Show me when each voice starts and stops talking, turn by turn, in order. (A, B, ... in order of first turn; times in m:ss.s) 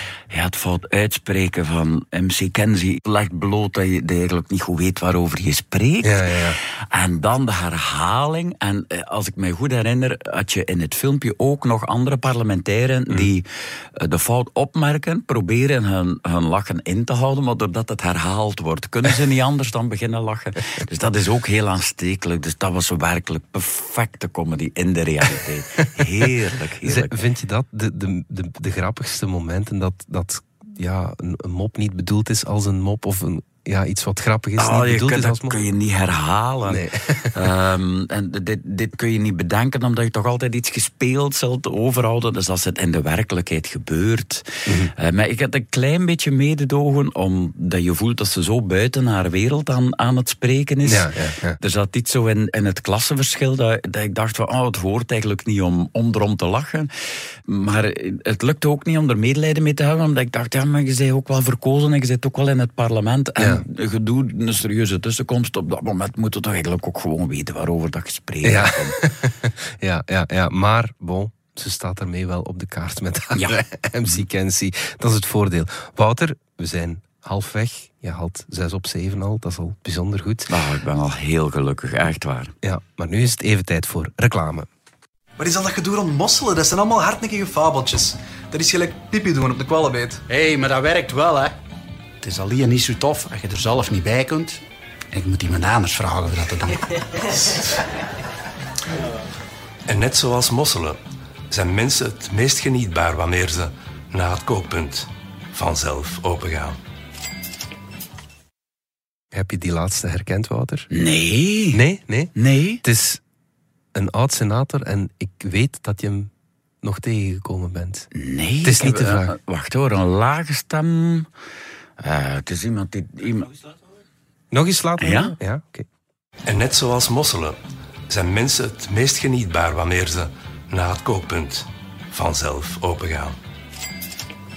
0:00.3-0:27.1 A
0:06.0-0:06.6 B
0:26.0-0:26.2 B
0:26.8-0:35.6 B
0:34.6-0:51.1 A
0:36.7-0:37.4 B
0:44.7-0:44.9 B
0:50.8-0:51.6 B
0:51.6-0:56.9 A
0:57.5-1:09.0 A
1:03.4-1:03.6 B
1:08.4-1:20.5 B
1:20.5-1:22.5 A
1:22.6-1:24.7 B
1:25.4-1:30.2 C
1:30.3-1:31.5 D
1:32.2-1:34.6 D
1:35.1-1:37.3 D
1:39.9-1:41.0 E
1:41.5-1:45.1 E
1:45.6-1:46.8 E
1:49.3-1:50.9 B
1:50.9-1:51.8 A
1:51.7-1:53.2 B
1:52.4-1:52.8 A
1:53.9-1:56.3 B
1:56.8-1:58.1 B
1:58.1-2:01.3 A
1:58.6-1:59.4 B
2:02.0-2:03.5 A
2:04.5-2:05.9 B
2:05.0-2:05.4 A
2:06.5-2:07.5 E
2:08.2-2:10.3 E
2:10.8-2:11.6 E
2:12.2-2:13.3 E